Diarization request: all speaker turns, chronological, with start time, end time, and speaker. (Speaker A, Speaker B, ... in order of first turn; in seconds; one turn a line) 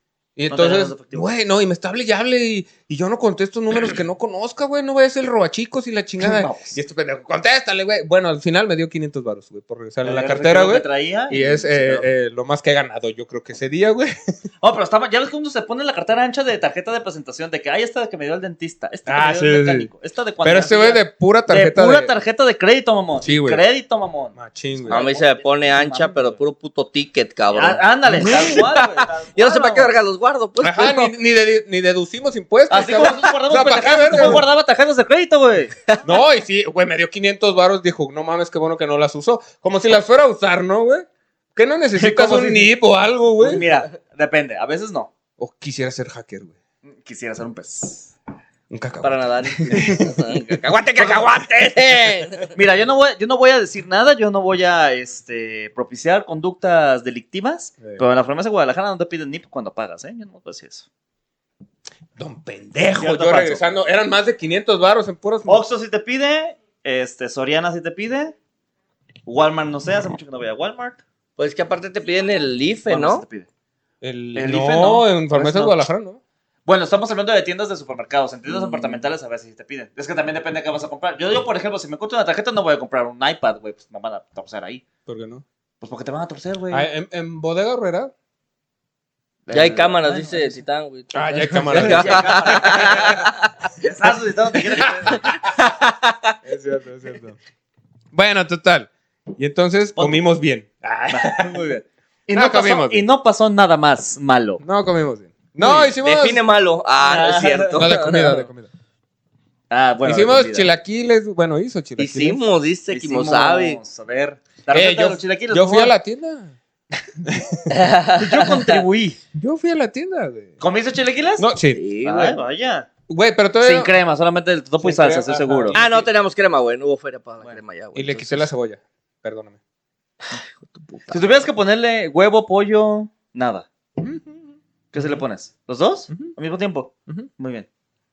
Speaker A: 0.4-14.2
Speaker B: 0.5-1.3
Speaker B: 6.2-6.8
Speaker B: 10.0-12.1
Speaker B: 14.6-26.4
Speaker A: 19.1-19.9
Speaker A: 20.4-22.1
Speaker A: 23.2-23.6
Speaker A: 24.4-25.1
Speaker C: 24.9-31.1
Speaker B: 27.5-30.0
Speaker A: 28.1-28.6
Speaker A: 30.6-34.4
Speaker B: 32.7-36.0
Speaker A: 36.0-43.6
Speaker B: 42.0-42.7
Speaker B: 43.4-45.1
Speaker A: 45.4-46.5
Speaker B: 46.9-48.1
Speaker A: 48.7-50.5
Speaker C: 49.0-52.5
Speaker B: 52.5-60.9
Speaker A: 62.2-65.6
Speaker B: 63.0-63.7
Speaker B: 65.5-68.4
Speaker B: 69.3-71.0
Speaker C: 71.4-73.2
Speaker B: 72.9-73.5
Speaker A: 74.0-76.2
Speaker B: 74.3-75.8
Speaker B: 76.7-84.8
Speaker A: 85.1-85.4
Speaker B: 85.8-86.9
Speaker A: 86.7-88.1
Speaker B: 89.5-90.6
Speaker C: 89.5-93.4
Speaker A: 91.1-93.2
Speaker B: 91.3-95.4
Speaker A: 94.8-95.3
Speaker C: 95.5-96.3
Speaker A: 96.5-97.4
Speaker A: 98.1-101.7
Speaker B: 100.0-100.2
Speaker B: 101.1-104.6
Speaker A: 102.3-103.0
Speaker A: 104.6-106.4
Speaker B: 105.6-105.9
Speaker C: 106.0-108.4
Speaker B: 107.0-107.8
Speaker A: 107.8-108.7
Speaker B: 109.7-110.7
Speaker A: 110.0-112.4
Speaker C: 112.0-113.8
Speaker B: 112.9-115.9
Speaker A: 114.7-116.5
Speaker A: 117.2-117.8
Speaker C: 117.7-118.8
Speaker B: 118.2-119.2
Speaker A: 119.3-120.6
Speaker B: 120.6-121.5
Speaker A: 121.4-121.8
Speaker C: 121.7-122.4
Speaker B: 122.0-122.9
Speaker A: 123.1-123.9
Speaker B: 123.6-126.1
Speaker A: 124.8-125.8
Speaker C: 125.7-128.5
Speaker A: 128.0-129.6
Speaker C: 130.3-131.3
Speaker B: 131.1-133.7
Speaker A: 134.0-134.3
Speaker B: 134.9-137.7